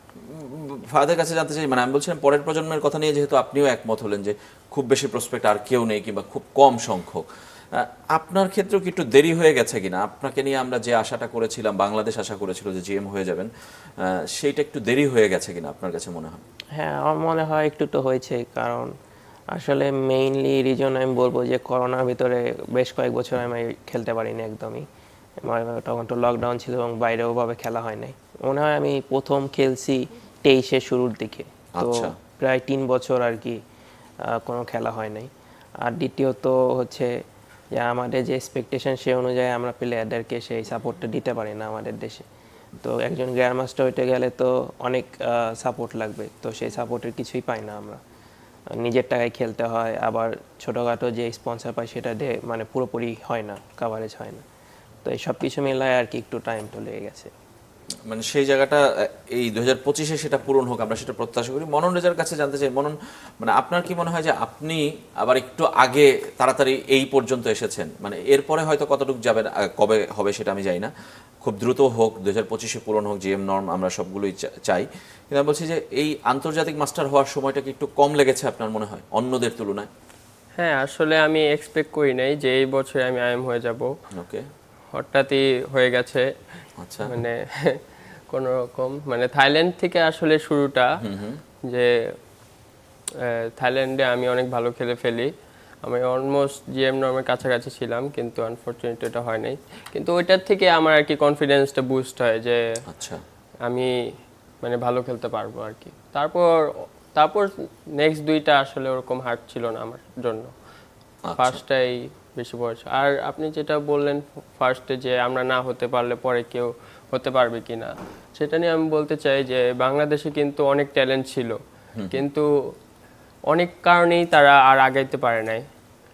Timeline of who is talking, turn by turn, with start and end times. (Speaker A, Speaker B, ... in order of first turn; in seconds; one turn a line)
Speaker A: 0.2-13.5
Speaker A: 14.0-16.4
Speaker B: 16.8-18.9
Speaker B: 19.5-24.8
Speaker B: 25.4-33.6
Speaker A: 31.8-32.1
Speaker B: 34.3-35.3
Speaker B: 35.8-37.1
Speaker B: 37.7-42.2
Speaker B: 42.8-48.0
Speaker B: 48.8-54.4
Speaker B: 55.0-57.3
Speaker A: 58.1-70.9
Speaker A: 71.4-79.9
Speaker C: 80.6-83.9
Speaker A: 84.1-84.5
Speaker C: 84.9-86.3
Speaker A: 86.8-87.2
Speaker C: 87.0-87.8
Speaker C: 88.3-90.9
Speaker A: 91.0-91.4
Speaker C: 91.7-91.9
Speaker C: 93.2-95.3
Speaker C: 95.8-102.6
Speaker A: 102.9-103.2
Speaker C: 103.7-103.9
Speaker C: 104.6-110.5
Speaker A: 111.3-111.6
Speaker C: 111.4-121.5
Speaker A: 122.0-122.2
Speaker C: 122.1-122.5
Speaker C: 123.5-125.6